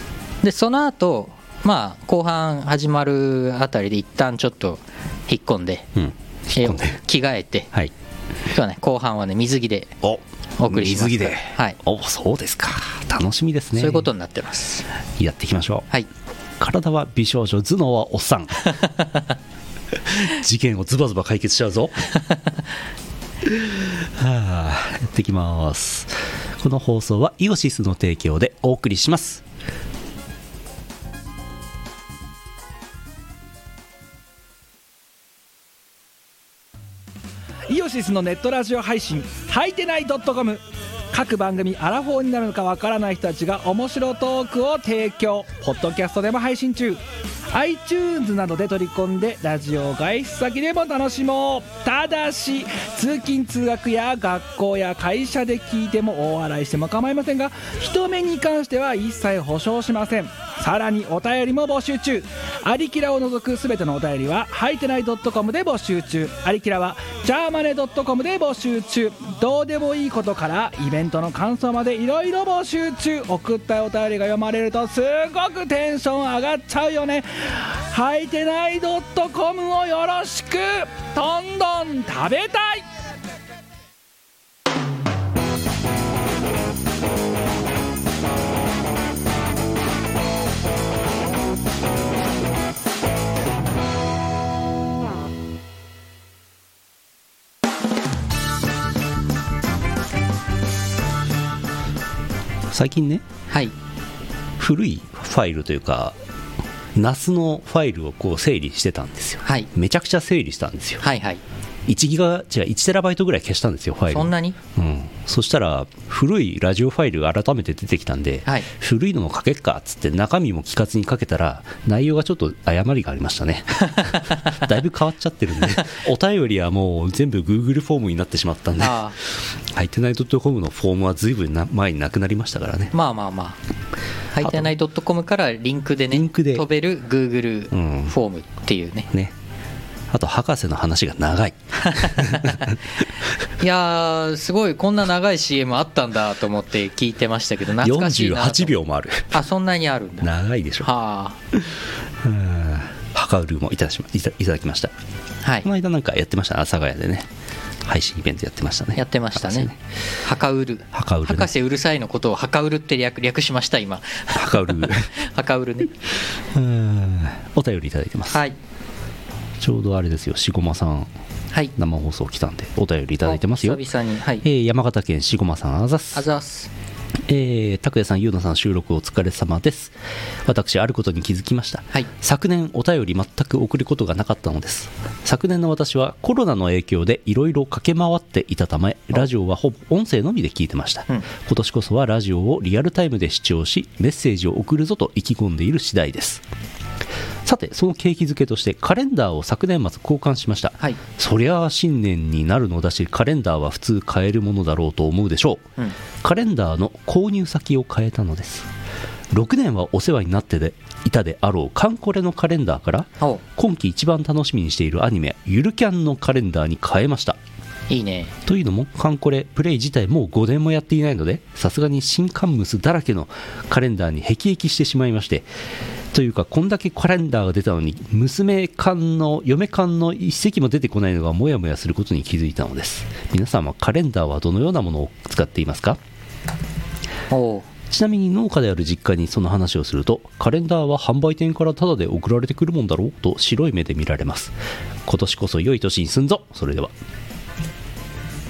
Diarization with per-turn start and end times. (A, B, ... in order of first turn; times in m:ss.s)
0:00.4-0:05.9 A
0:05.9-0:07.0 B
0:06.5-0:07.7 A
0:08.5-0:10.0 A
0:10.0-0:14.1 B
0:10.6-0:11.8 A
0:13.7-0:14.8 A
0:15.2-0:15.8 B
0:16.6-0:18.6 B
0:20.0-0:22.1 B
0:23.4-0:29.4 B
0:37.7-0:40.6 C
0:41.1-0:47.0 C
0:47.5-1:22.8 C
1:42.7-1:43.2 B
1:44.6-1:46.2 B
1:46.9-1:51.0 B
1:51.0-1:51.4 A
1:51.9-2:12.9 B
1:54.1-1:54.6 A
2:04.0-2:04.5 A
2:08.8-2:09.2 A
2:12.9-2:13.6 A
2:14.3-2:19.1 A
2:14.4-2:14.7 B
2:16.1-2:16.6 B
2:17.7-2:18.1 B
2:20.1-2:22.8 B
2:21.8-2:22.8 A
2:23.6-2:28.7 A
2:27.8-2:29.4 B
2:29.3-2:30.3 A
2:30.2-2:30.9 B
2:30.8-2:31.4 A
2:31.5-2:34.9 B
2:35.6-2:37.3 B
2:37.8-2:39.8 B
2:39.0-2:45.9 A
2:40.9-2:41.5 B
2:44.3-2:45.1 B
2:46.5-2:48.4 B
2:49.6-2:51.1 B
2:51.8-2:53.8 B
2:53.2-2:54.4 A
2:54.4-2:56.2 B
2:56.1-2:56.7 A
2:57.3-3:16.4 B
3:17.4-3:25.7 B
3:26.2-3:28.7 B
3:29.3-3:37.4 B
3:37.9-3:38.4 A
3:38.4-3:45.5 B
3:46.1-3:56.0 B
3:57.3-3:57.7 A
3:57.9-4:04.5 B
4:05.0-4:06.9 B